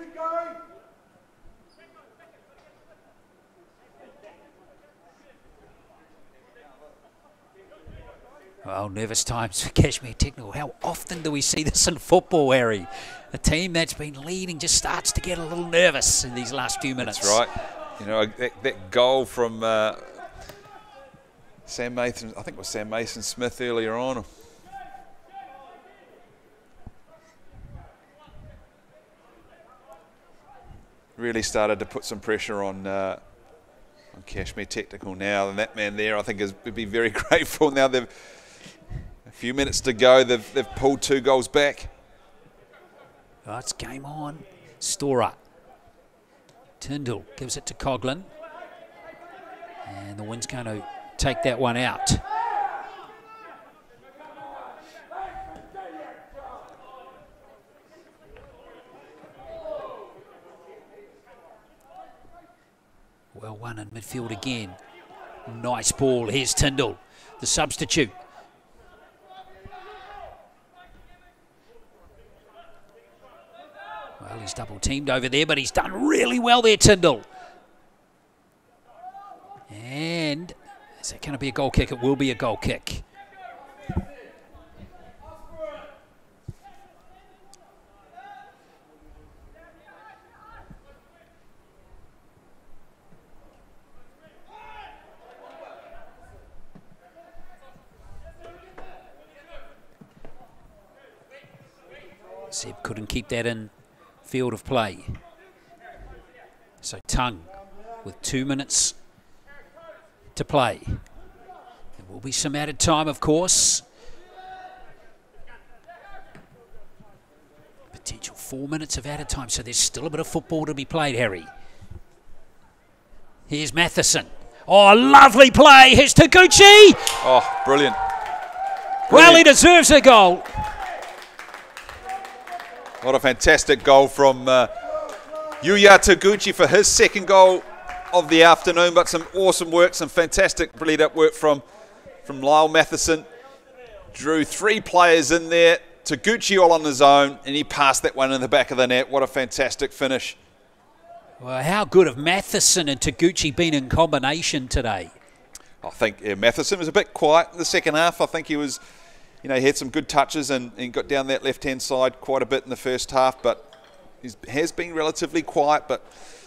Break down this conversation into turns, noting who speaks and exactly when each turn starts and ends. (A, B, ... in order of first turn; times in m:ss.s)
0:08.6-0:17.4 A
0:17.0-0:20.3 B
0:21.6-0:24.3 B
0:31.2-0:33.2 B
0:34.1-0:38.5 B
0:39.2-0:41.9 B
0:43.4-0:45.4 A
0:46.8-0:48.3 A
0:49.8-0:52.2 A
1:03.3-1:04.8 A
1:05.4-1:08.1 A
1:14.2-1:17.2 A
1:19.7-1:23.0 A
1:42.5-1:43.7 A
1:44.2-1:45.2 A
1:46.8-1:49.0 A
1:50.3-1:51.0 A
1:52.0-1:53.8 A
1:57.9-2:01.5 A
2:03.5-2:07.2 A
2:07.2-2:08.0 B
2:09.1-2:09.4 B
2:09.1-2:10.5 A
2:13.0-2:14.8 B
2:15.6-2:21.6 B
2:22.2-2:23.3 B
2:24.1-2:30.4 B
2:31.4-2:35.1 A
2:35.8-2:38.8 B
2:39.4-2:43.7 B
2:44.2-2:46.1 B